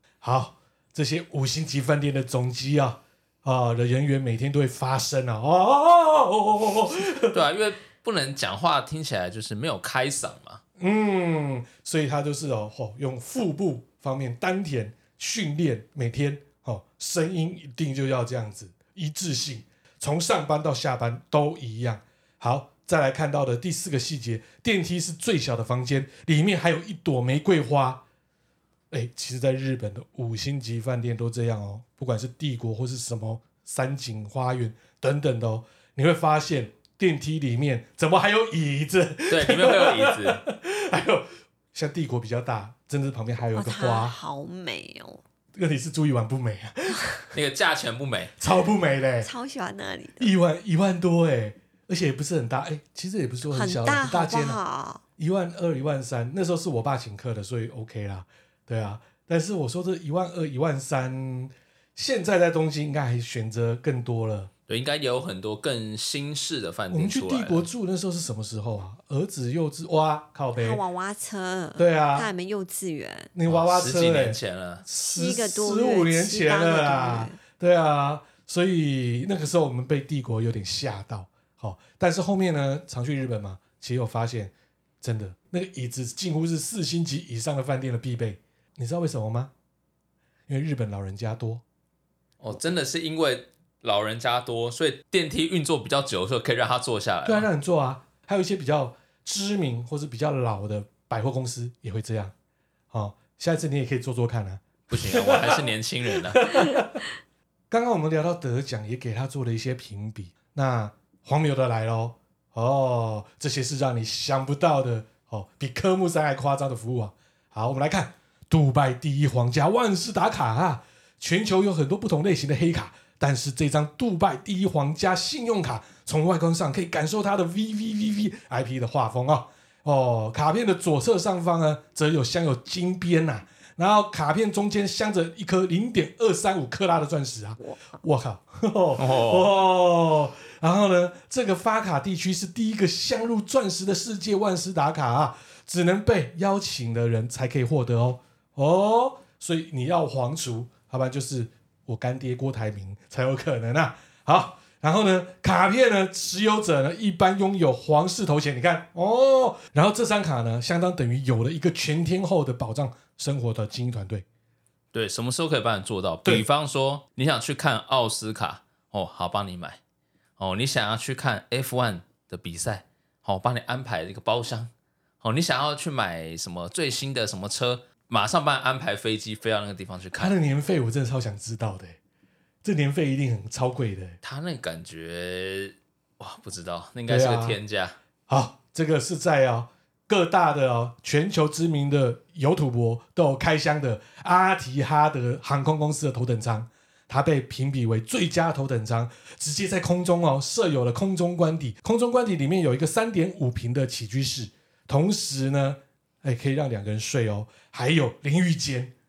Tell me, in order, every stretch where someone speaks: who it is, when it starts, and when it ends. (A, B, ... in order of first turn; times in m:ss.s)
0:00.2-0:07.4 A
0:07.2-0:10.6 B
0:10.8-0:28.0 A
0:28.9-0:44.1 A
0:39.3-0:40.4 B
0:43.5-0:45.2 C
0:45.5-0:47.3 A
0:47.3-0:48.3 B
0:48.4-0:49.3 A
0:49.2-0:50.3 C
0:50.2-0:54.6 A
0:53.5-0:55.0 C
0:55.2-1:04.5 A
1:04.7-1:07.6 B
1:06.9-1:10.8 A
1:10.6-1:13.3 C
1:11.8-1:12.3 A
1:13.3-1:29.5 A
1:13.5-1:14.8 B
1:15.0-1:17.4 C
1:30.5-1:31.6 A
1:32.4-1:37.5 B
1:37.2-1:42.3 A
1:42.9-1:47.0 A
1:44.9-1:46.5 B
1:47.7-2:44.2 A
2:19.0-2:19.5 B
2:44.9-2:49.8 B
2:50.4-2:54.7 B
2:55.2-3:00.3 B
3:00.1-3:02.0 A
3:02.6-3:04.2 A
3:04.2-3:08.0 B
3:07.1-3:07.6 A
3:08.3-3:28.9 A